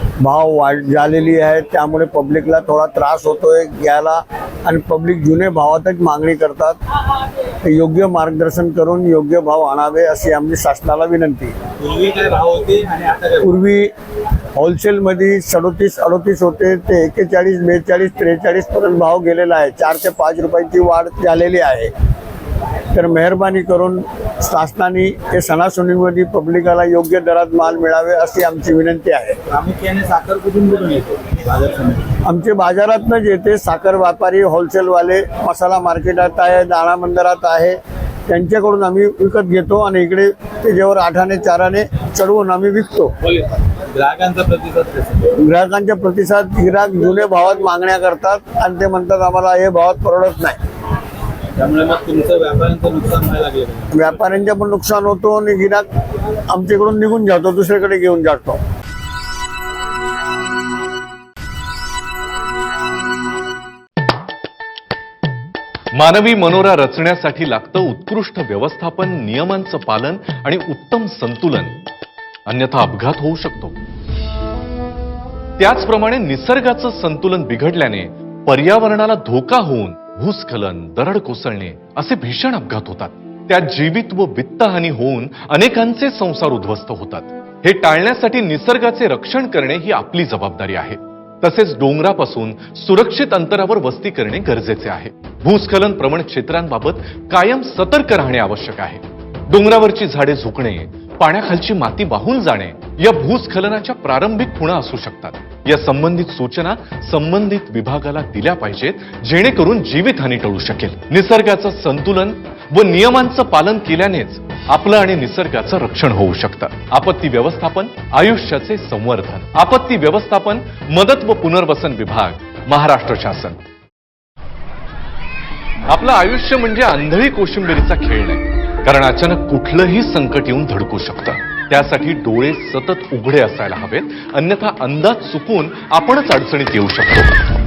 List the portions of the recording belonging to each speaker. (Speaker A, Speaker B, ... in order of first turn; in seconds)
Speaker A: 0.2-6.8, 7.6-11.5, 13.4-13.9, 14.6-21.9, 22.9-29.4, 32.2-43.1, 45.3-50.6, 53.9-55.9, 56.5-58.6
Speaker B: 11.8-13.4, 29.5-32.1, 43.3-45.3, 51.5-53.9
Speaker C: 65.9-71.8, 72.5-73.8, 75.6-123.6, 125.9-137.3